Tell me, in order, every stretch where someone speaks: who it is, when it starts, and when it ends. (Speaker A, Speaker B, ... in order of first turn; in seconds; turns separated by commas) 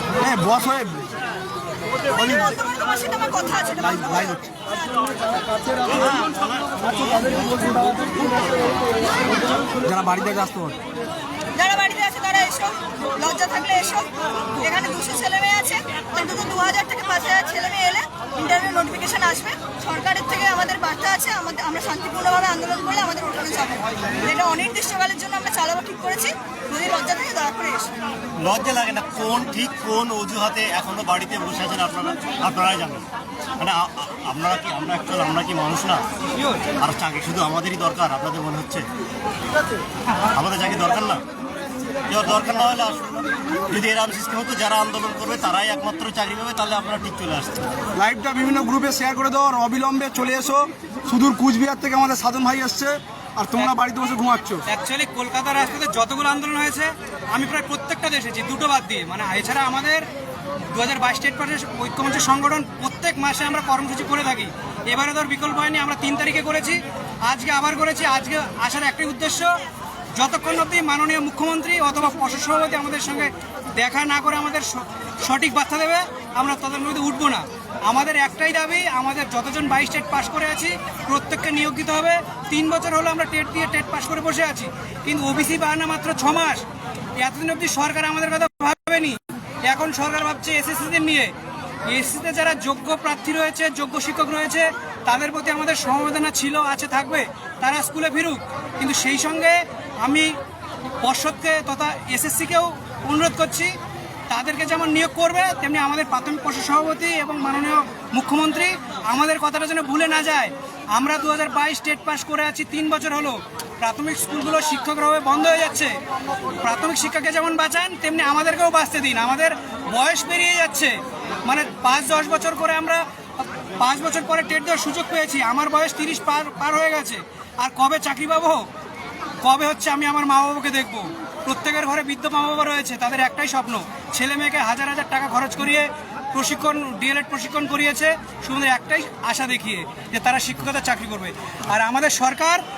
Speaker A: 0.2-1.1, Speaker B: 2.1-4.4, Speaker A: 3.8-4.5, Speaker C: 5.8-8.1, Speaker A: 9.8-10.8, Speaker B: 11.6-27.9, Speaker C: 28.4-33.1, Speaker C: 33.6-36.0, Speaker C: 36.8-38.9, Speaker C: 40.4-41.2, Speaker C: 42.1-47.7, Speaker A: 48.0-54.6, Speaker D: 54.7-60.1, Speaker D: 60.6-69.6, Speaker D: 70.1-86.7, Speaker D: 87.2-91.3, Speaker D: 91.8-100.4, Speaker D: 101.0-103.8, Speaker D: 104.3-116.0, Speaker D: 116.6-128.7, Speaker D: 129.4-142.6